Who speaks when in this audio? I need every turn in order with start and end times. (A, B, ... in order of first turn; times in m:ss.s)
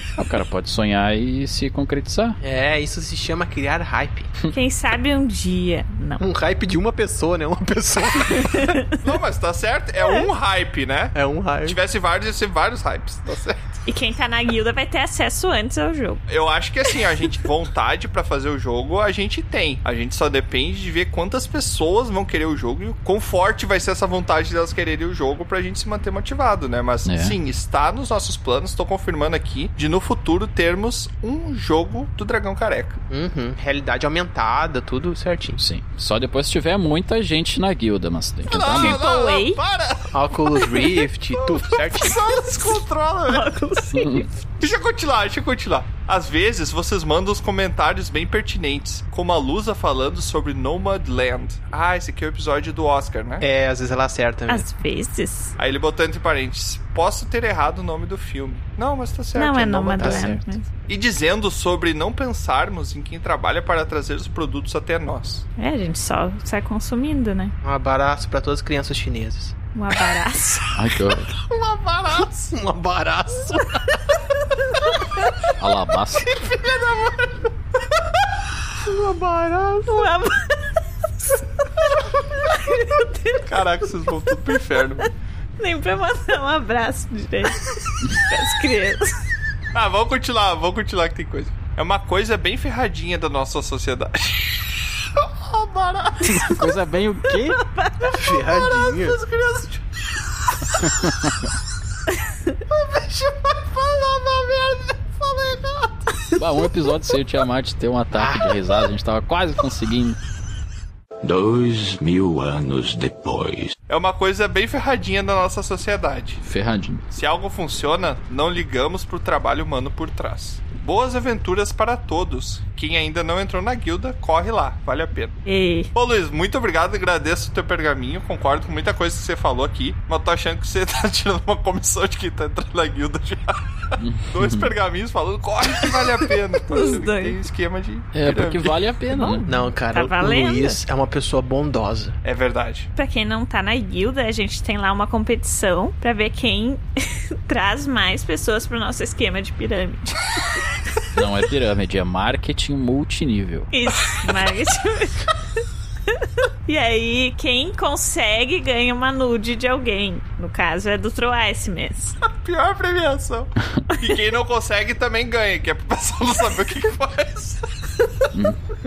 0:00.2-0:02.4 A
0:02.4-0:04.3 B
0:04.5-0:06.2 C
0:06.2-0:08.8 B
0:08.3-0:08.8 C
0:09.0-0:13.8 D
0:11.1-0:11.8 B
0:13.9-0:16.2 C
0:16.3-0:33.0 D
0:27.0-0:27.4 A
0:33.1-0:35.6 B
0:35.6-0:39.0 A
0:38.4-0:40.7 D
0:38.8-0:39.6 C
0:40.1-0:42.2 B
0:41.4-0:43.5 D
0:43.3-0:44.4 C
0:44.6-0:53.4 D
0:53.4-0:54.7 B
0:54.5-0:55.5 C
0:55.6-1:00.3 D
0:59.4-1:00.7 C
1:00.0-1:00.4 B
1:00.9-1:05.4 D
1:05.6-1:07.5 C
1:07.6-1:09.5 B
1:09.7-1:10.9 C
1:10.8-1:11.3 A
1:11.4-1:12.3 D
1:12.1-1:14.3 B
1:15.6-1:16.2 A
1:16.4-1:17.3 D
1:16.4-1:16.8 B
1:18.8-1:20.1 B
1:19.8-1:20.8 C
1:22.5-1:23.5 C
1:23.4-1:25.1 D
1:25.6-1:29.2 C
1:29.7-1:36.5 D
1:36.2-1:37.6 A
1:37.4-1:38.2 C
1:38.1-1:39.2 B
1:38.5-1:39.8 D
1:40.7-1:41.5 A
1:42.7-1:46.1 D
1:46.4-1:50.2 A
1:48.1-1:48.7 B
1:51.2-1:53.7 E
1:53.9-1:56.4 D
1:56.4-1:57.0 A
1:57.1-2:05.4 D
2:05.4-2:05.9 C
2:05.9-2:18.8 D
2:14.0-2:14.7 A
2:16.7-2:17.4 C
2:18.1-2:19.4 A
2:19.1-2:20.8 C
2:19.5-2:22.2 B
2:22.2-2:22.9 D
2:23.0-2:30.6 C
2:31.1-2:33.7 A
2:33.7-2:35.3 C
2:36.1-2:42.2 C
2:42.3-2:47.6 D
2:48.3-2:48.6 A